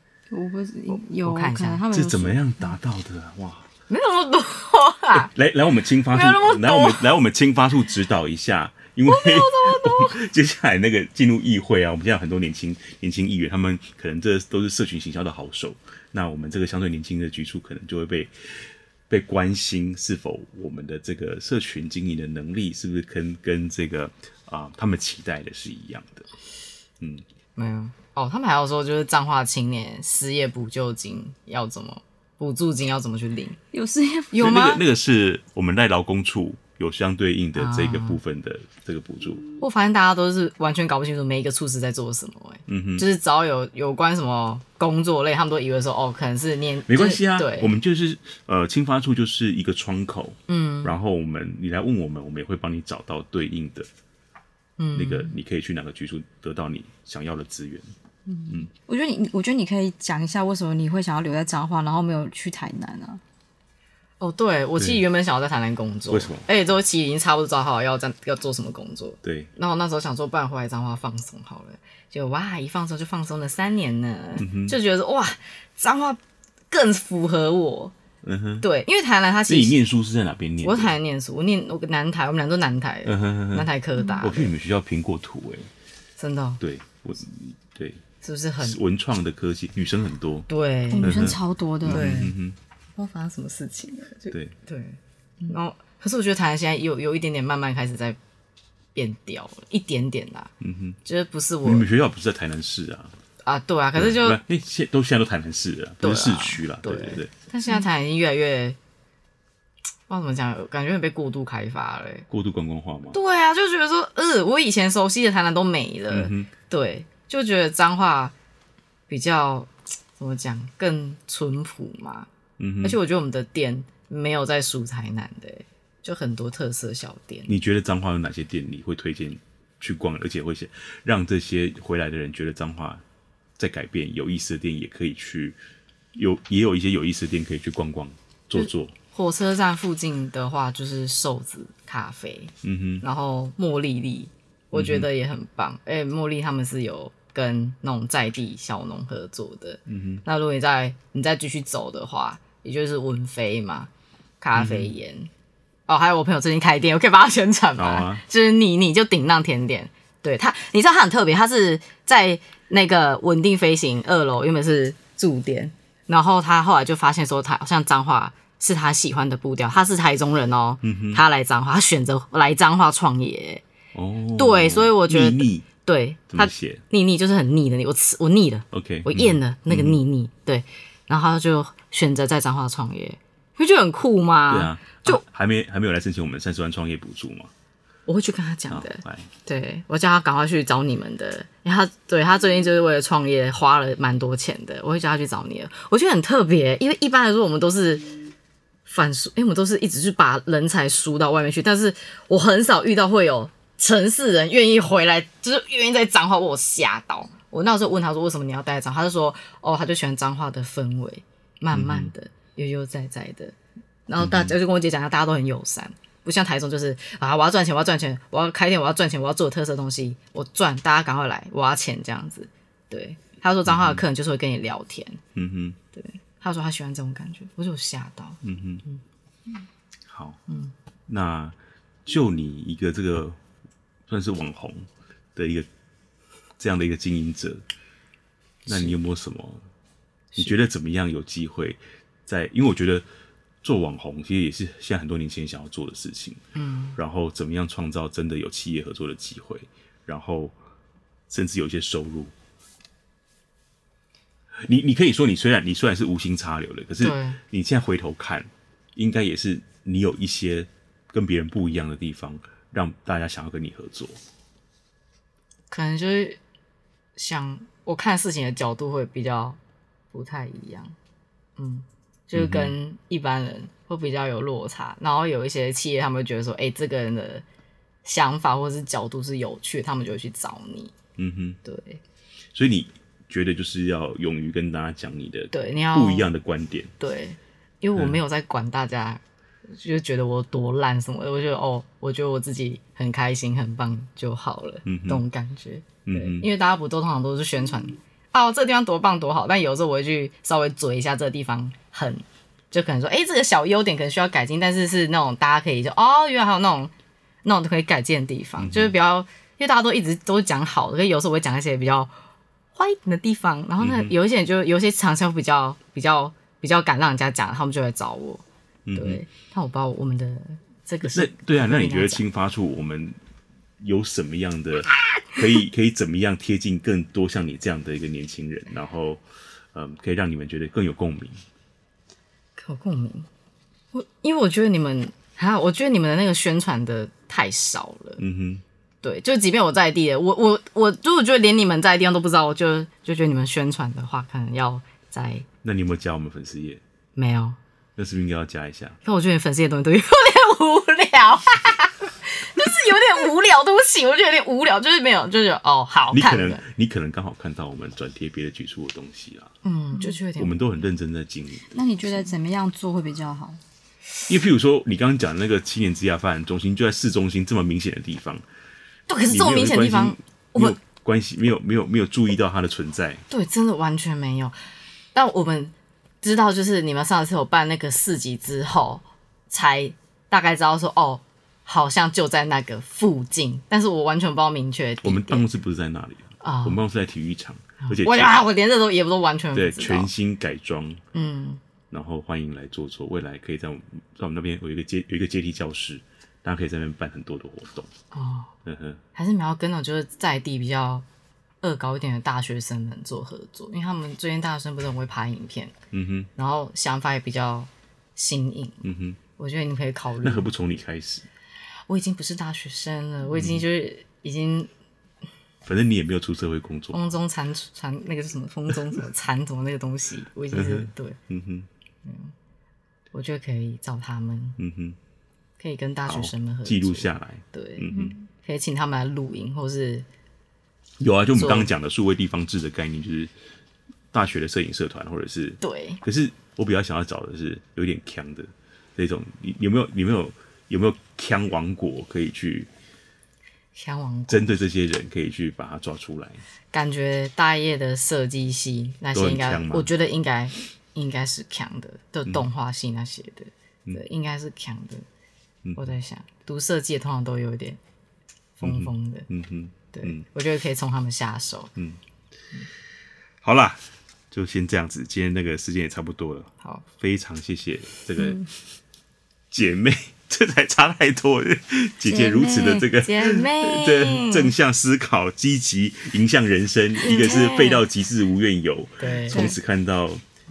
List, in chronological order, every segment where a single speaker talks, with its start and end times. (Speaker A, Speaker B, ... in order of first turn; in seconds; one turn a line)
Speaker A: 0.3-2.4
Speaker B: 0.9-1.8
Speaker C: 1.9-3.7
Speaker B: 3.9-5.3
Speaker C: 5.1-26.3
Speaker B: 6.1-7.1
Speaker B: 9.1-10.2
Speaker C: 27.0-27.2
Speaker B: 27.6-33.6
Speaker A: 33.7-34.4
Speaker B: 34.3-34.8
Speaker C: 34.3-39.4
Speaker B: 37.5-38.2
Speaker B: 39.6-47.7
Speaker C: 42.7-43.1
Speaker C: 46.9-53.9
Speaker B: 50.5-50.9
Speaker B: 54.8-55.3
Speaker C: 54.9-57.9
Speaker A: 58.3-63.2
Speaker B: 64.2-76.2
Speaker C: 64.8-65.0
Speaker C: 66.1-66.5
Speaker C: 69.2-69.5
Speaker C: 74.4-74.8
Speaker B: 76.7-77.9
Speaker C: 78.2-78.6
Speaker B: 78.6-79.8
Speaker C: 79.5-80.9
Speaker B: 80.6-84.5
Speaker C: 83.0-83.7
Speaker C: 84.2-85.7
Speaker B: 86.2-86.6
Speaker C: 86.6-88.0
Speaker B: 88.2-88.8
Speaker C: 88.6-90.5
Speaker B: 90.5-91.3
Speaker A: 90.9-92.0
Speaker C: 91.0-92.6
Speaker B: 91.8-92.4
Speaker B: 93.0-98.2
Speaker B: 98.9-100.5
Speaker C: 100.6-101.0
Speaker B: 101.0-101.9
Speaker C: 101.6-103.2
Speaker B: 103.4-104.4
Speaker C: 103.9-107.3
Speaker B: 106.0-108.8
Speaker B: 110.1-112.2
Speaker C: 112.3-113.2
Speaker B: 113.1-118.3
Speaker C: 116.1-116.5
Speaker B: 119.1-122.3
Speaker C: 122.6-123.0
Speaker B: 122.8-127.5
Speaker C: 127.5-133.0
Speaker C: 133.6-135.6
Speaker C: 136.1-138.9
Speaker B: 138.5-153.9
Speaker C: 142.6-143.0
Speaker C: 144.7-145.1
Speaker C: 149.9-150.2
Speaker B: 154.4-155.3
Speaker C: 154.5-154.9
Speaker B: 155.9-173.6
Speaker C: 157.8-158.2
Speaker C: 170.8-171.2
Speaker C: 173.9-175.7
Speaker B: 174.4-185.2
Speaker C: 176.3-176.8
Speaker C: 178.7-180.0
Speaker C: 184.5-187.5
Speaker B: 188.1-198.2
Speaker C: 188.7-189.3
Speaker B: 198.8-213.5
Speaker C: 211.7-212.1
Speaker B: 214.1-225.2
Speaker C: 214.2-214.6
Speaker C: 223.7-224.0
Speaker C: 225.3-225.8
Speaker B: 225.9-229.0
Speaker C: 228.4-228.8
Speaker C: 230.1-230.4
Speaker C: 231.1-233.4
Speaker C: 234.1-235.7
Speaker C: 236.6-237.6
Speaker B: 238.6-239.0
Speaker C: 238.7-239.6
Speaker C: 240.4-243.0
Speaker C: 243.6-246.4
Speaker B: 246.5-247.0
Speaker C: 247.0-250.6
Speaker C: 251.3-252.3
Speaker C: 254.5-264.2
Speaker B: 257.0-257.4
Speaker B: 265.7-266.4
Speaker B: 267.1-269.6
Speaker B: 270.1-270.9
Speaker B: 271.6-277.4
Speaker C: 272.3-272.8
Speaker B: 278.0-280.9
Speaker C: 281.2-281.6
Speaker B: 281.6-282.0
Speaker C: 282.5-286.9
Speaker B: 285.5-286.3
Speaker B: 287.0-289.2
Speaker B: 289.7-306.9
Speaker C: 294.9-295.2
Speaker C: 296.0-296.4
Speaker B: 307.4-312.1
Speaker C: 308.6-308.9
Speaker B: 312.7-318.4
Speaker C: 313.8-314.1
Speaker C: 318.9-319.2
Speaker B: 318.9-322.2
Speaker C: 321.1-323.2
Speaker C: 323.8-331.4
Speaker B: 332.6-333.3
Speaker B: 333.9-338.2
Speaker C: 338.2-338.6
Speaker B: 339.0-345.4
Speaker C: 345.6-346.8
Speaker B: 347.1-347.6
Speaker C: 347.9-349.0
Speaker B: 349.0-356.6
Speaker C: 356.1-359.5
Speaker B: 359.6-360.6
Speaker C: 360.4-361.8
Speaker A: 361.7-363.6
Speaker C: 364.3-368.4
Speaker B: 369.1-370.8
Speaker C: 369.3-373.2
Speaker B: 373.3-374.6
Speaker B: 375.1-385.4
Speaker C: 385.0-388.5
Speaker B: 386.4-386.8
Speaker B: 387.8-390.1
Speaker C: 389.5-391.0
Speaker B: 391.1-391.6
Speaker C: 391.9-397.9
Speaker B: 398.1-398.5
Speaker C: 398.6-399.0
Speaker B: 399.1-401.0
Speaker B: 401.6-405.7
Speaker C: 405.9-406.3
Speaker B: 406.4-408.8
Speaker C: 408.8-409.2
Speaker B: 409.4-410.5
Speaker C: 410.2-411.3
Speaker B: 411.9-414.7
Speaker C: 413.3-413.6
Speaker C: 415.6-417.0
Speaker B: 416.9-421.2
Speaker C: 420.5-421.7
Speaker B: 422.0-422.3
Speaker B: 423.1-424.6
Speaker C: 424.6-425.0
Speaker B: 425.6-430.1
Speaker C: 426.1-428.1
Speaker C: 431.0-433.3
Speaker B: 431.4-431.7
Speaker C: 434.1-442.7
Speaker B: 435.6-436.0
Speaker B: 443.7-444.5
Speaker C: 444.3-446.4
Speaker B: 446.7-455.0
Speaker C: 449.1-449.9
Speaker C: 455.6-455.9
Speaker B: 455.8-457.8
Speaker B: 458.6-459.3
Speaker C: 458.6-460.2
Speaker B: 459.9-461.7
Speaker C: 463.4-468.4
Speaker C: 469.5-480.2
Speaker A: 472.1-472.9
Speaker B: 472.9-474.5
Speaker A: 477.0-477.8
Speaker B: 479.0-479.5
Speaker A: 479.3-479.6